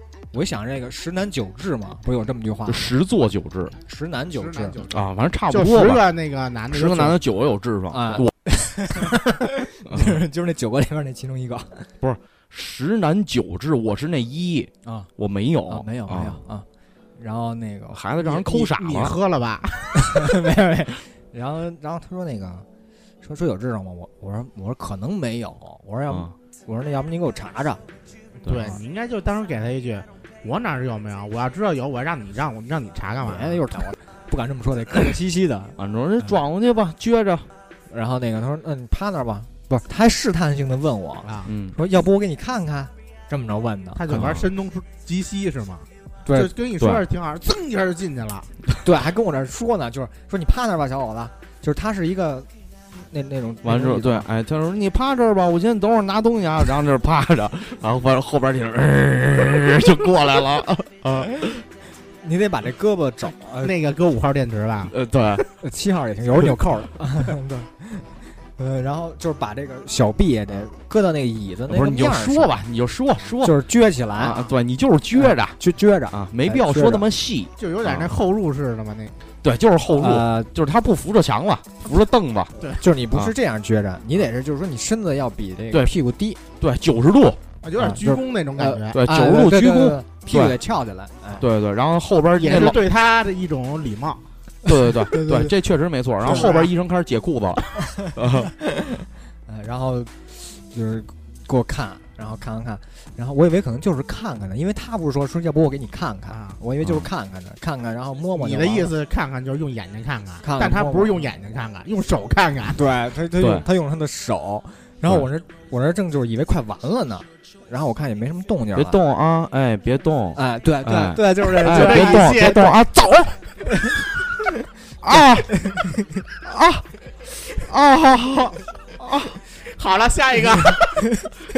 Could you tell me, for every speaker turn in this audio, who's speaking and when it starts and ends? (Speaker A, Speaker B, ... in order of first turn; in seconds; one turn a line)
Speaker A: 0.3-2.9
Speaker B: 2.7-3.7
Speaker A: 3.8-4.8
Speaker C: 4.3-7.2
Speaker B: 4.9-6.0
Speaker B: 6.7-8.3
Speaker A: 7.9-11.9
Speaker B: 9.9-10.2
Speaker B: 12.0-16.4
Speaker A: 14.8-15.1
Speaker A: 15.7-18.0
Speaker B: 17.9-19.2
Speaker C: 18.2-20.2
Speaker A: 20.1-22.6
Speaker A: 23.2-27.8
Speaker B: 26.1-26.3
Speaker B: 28.4-28.7
Speaker C: 28.4-33.6
Speaker A: 33.2-36.3
Speaker B: 35.8-37.5
Speaker A: 37.9-44.2
Speaker C: 41.2-41.5
Speaker B: 41.4-41.8
Speaker C: 43.9-48.5
Speaker B: 44.1-44.5
Speaker A: 46.2-46.5
Speaker B: 46.8-47.0
Speaker A: 48.8-54.3
Speaker B: 53.6-61.6
Speaker A: 62.2-63.7
Speaker C: 63.6-64.9
Speaker B: 64.8-65.5
Speaker A: 65.6-72.6
Speaker B: 71.7-73.6
Speaker A: 73.4-74.5
Speaker B: 74.2-75.6
Speaker A: 75.1-77.1
Speaker B: 76.1-78.2
Speaker C: 77.6-79.2
Speaker B: 79.4-82.5
Speaker A: 79.9-80.5
Speaker C: 82.6-82.8
Speaker A: 82.8-86.4
Speaker B: 86.6-87.4
Speaker C: 87.6-89.0
Speaker A: 87.8-91.5
Speaker B: 88.9-90.6
Speaker B: 91.4-92.8
Speaker C: 92.4-94.2
Speaker B: 94.7-98.5
Speaker A: 95.0-95.5
Speaker C: 96.2-96.7
Speaker A: 96.2-96.5
Speaker A: 99.5-108.9
Speaker C: 106.3-106.6
Speaker B: 106.8-107.1
Speaker C: 108.3-112.8
Speaker A: 110.4-111.3
Speaker A: 112.7-119.0
Speaker B: 113.4-113.7
Speaker B: 118.7-123.4
Speaker A: 120.3-122.5
Speaker C: 121.6-122.8
Speaker B: 125.0-125.5
Speaker A: 125.1-125.9
Speaker B: 126.4-126.9
Speaker B: 127.5-129.4
Speaker C: 129.5-131.0